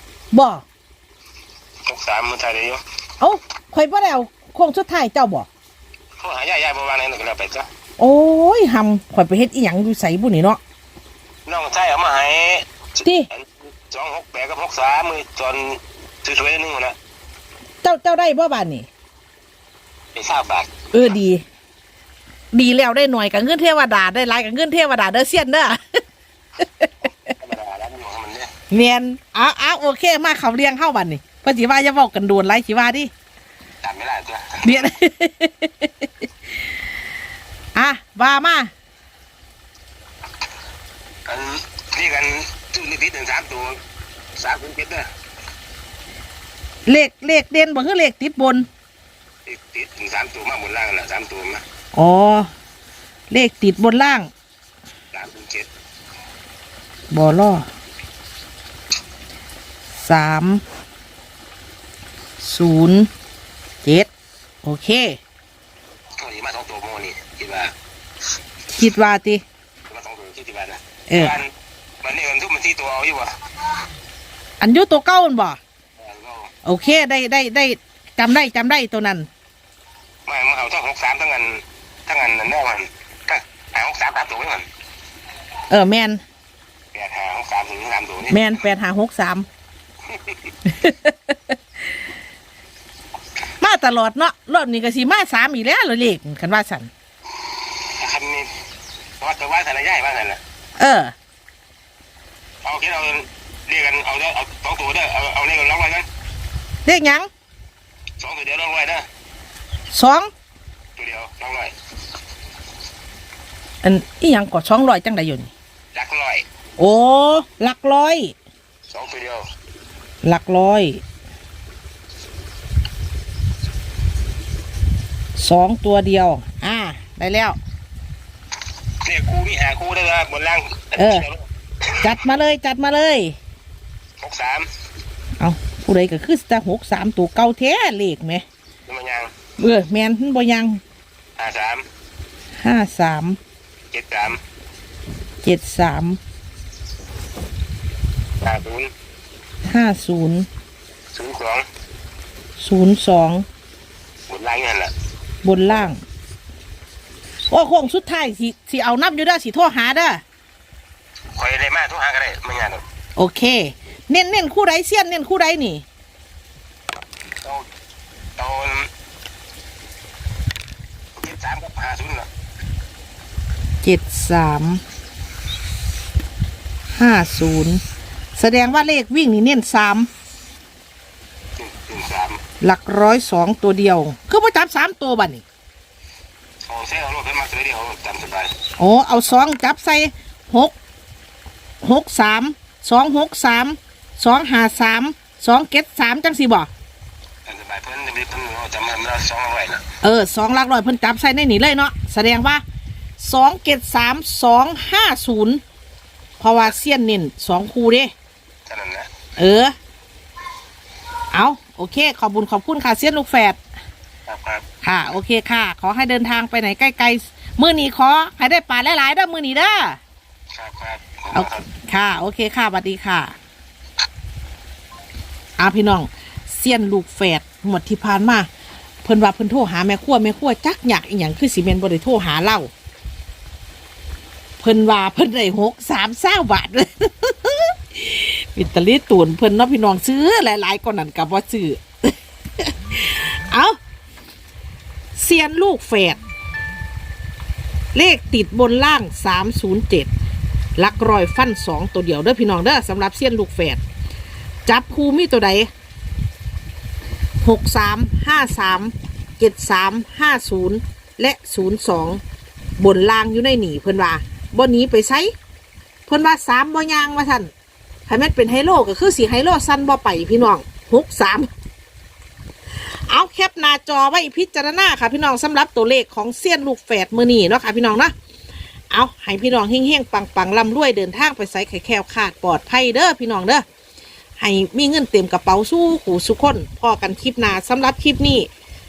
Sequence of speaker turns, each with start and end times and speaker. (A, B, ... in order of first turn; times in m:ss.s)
0:00.3-0:00.6 A
0:01.8-0:02.8 B
0:03.2-0:05.5 A
0:06.2-0:07.7 B
0:08.0-0:10.6 A
0:11.4-0:17.0 B
0:13.0-0:13.3 A
0:17.8-0:18.9 A
0:20.1-0:20.7 B
0:20.9-0:21.4 A
0:22.5-0:26.0 A
0:26.6-0:26.9 A
0:27.3-0:28.5 B
0:28.7-0:33.1 A
0:33.8-0:34.9 B
0:34.6-0:36.1 A
0:37.7-0:38.7 A
0:41.2-0:43.8 B
0:44.4-0:45.1 B
0:46.9-0:48.7 A
0:49.4-0:51.6 B
0:51.9-0:52.5 A
0:53.3-0:54.3 A
0:55.1-0:55.7 B
0:57.1-0:57.7 A
1:00.0-1:00.6 A
1:02.4-1:03.1 A
1:03.8-1:04.1 A
1:04.6-1:05.2 A
1:06.2-1:07.7 B
1:08.7-1:09.4 A
1:09.9-1:11.5 B
1:11.1-1:11.3 A
1:12.0-1:13.3 B
1:14.6-1:15.6 A
1:16.0-1:16.5 B
1:16.6-1:19.3 A
1:20.3-1:24.6 B
1:25.7-1:26.2 A
1:26.9-1:28.4 B
1:28.3-1:29.5 A
1:30.1-1:30.4 B
1:30.7-1:31.4 A
1:33.6-1:36.9 A
1:37.5-1:38.5 B
1:39.2-1:40.4 B
1:40.8-1:41.1 A
1:42.6-1:46.0 B
1:46.8-1:47.3 A
1:48.2-1:49.0 B
1:49.9-1:50.3 A
1:51.0-1:51.7 B
1:53.8-1:55.5 A
1:55.9-1:56.4 B
1:56.8-1:58.3 A
1:58.9-1:59.4 B
2:00.2-2:01.0 A
2:05.4-2:07.6 A
2:09.0-2:11.4 B
2:11.0-2:11.2 A
2:12.0-2:13.4 A
2:14.2-2:14.7 B
2:15.4-2:18.4 A
2:18.9-2:19.3 B
2:19.6-2:20.8 A
2:21.4-2:21.8 B
2:22.6-2:23.4 A
2:23.9-2:24.4 B
2:25.4-2:26.2 A
2:28.4-2:28.9 B
2:29.6-2:30.5 A
2:31.1-2:31.6 B
2:32.6-2:33.4 A
2:34.3-2:34.9 B
2:35.4-2:36.0 A
2:37.5-2:40.2 A
2:41.3-2:42.8 B
2:43.2-2:45.8 A
2:47.4-2:47.7 B
2:48.4-2:48.9 B
2:51.2-2:52.3 B
2:53.8-2:54.8 A
2:56.9-2:57.8 A
2:58.4-3:00.1 A
3:01.6-3:02.4 B
3:02.6-3:05.4 A
3:06.6-3:08.5 B
3:08.8-3:10.7 A
3:11.8-3:16.7 A
3:17.4-3:19.8 B
3:20.0-3:22.6 A
3:23.2-3:25.6 A
3:26.4-3:28.1 A
3:28.7-3:29.1 B
3:29.4-3:29.7 A
3:31.3-3:33.6 A
3:34.3-3:34.6 B
3:34.8-3:40.0 A
3:40.5-3:41.6 B
3:41.3-3:43.3 A
3:45.6-3:48.5 A
3:49.0-3:52.7 A
3:54.6-4:03.8 A
4:05.2-4:06.2 A
4:07.9-4:10.1 A
4:10.8-4:13.8 A
4:14.6-4:15.7 A
4:17.4-4:22.2 A
4:22.8-4:25.3 A
4:26.1-4:27.5 A
4:28.1-4:31.5 A
4:33.1-4:38.1 A
4:38.9-4:43.6 A
4:44.4-4:48.5 A